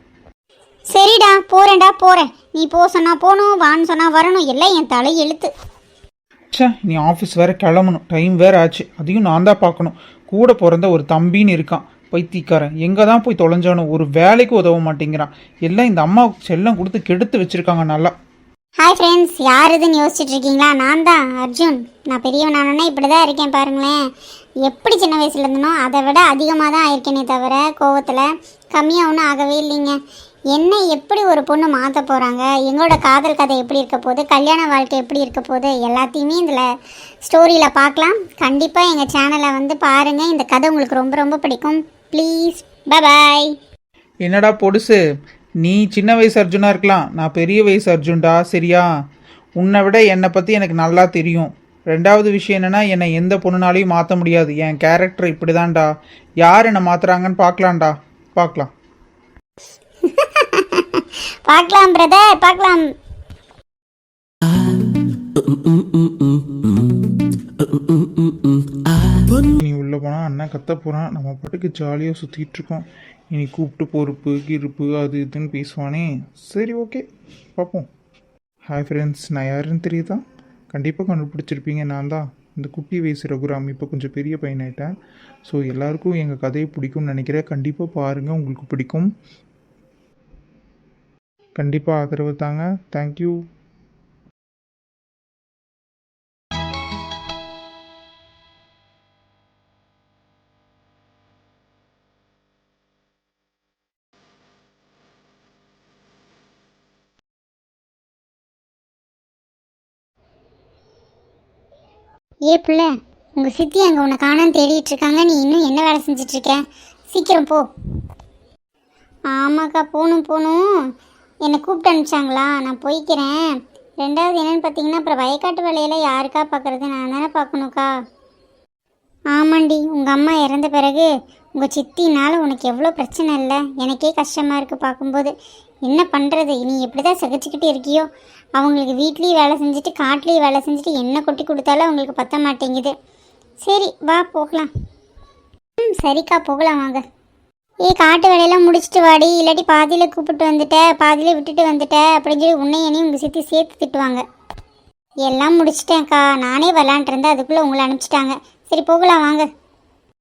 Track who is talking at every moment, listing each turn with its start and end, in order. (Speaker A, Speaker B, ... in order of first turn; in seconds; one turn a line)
Speaker A: 0.9-5.5
Speaker B: 6.5-18.1
Speaker A: 18.8-24.0
Speaker A: 24.6-29.9
Speaker A: 30.5-36.7
Speaker A: 37.2-43.5
Speaker B: 44.2-45.0
Speaker B: 45.6-48.9
Speaker B: 49.6-55.9
Speaker B: 56.4-58.7
Speaker A: 60.0-62.9
Speaker C: 69.4-77.0
Speaker C: 77.6-77.9
Speaker C: 78.7-84.9
Speaker C: 85.5-89.1
Speaker C: 91.6-93.4
Speaker A: 112.5-117.6
Speaker A: 119.3-120.7
Speaker A: 121.5-123.4
Speaker A: 124.0-127.9
Speaker A: 129.3-135.3
Speaker A: 135.8-142.9
Speaker A: 143.6-144.7
Speaker A: 145.8-147.0
Speaker A: 147.8-154.2
Speaker A: 155.2-159.4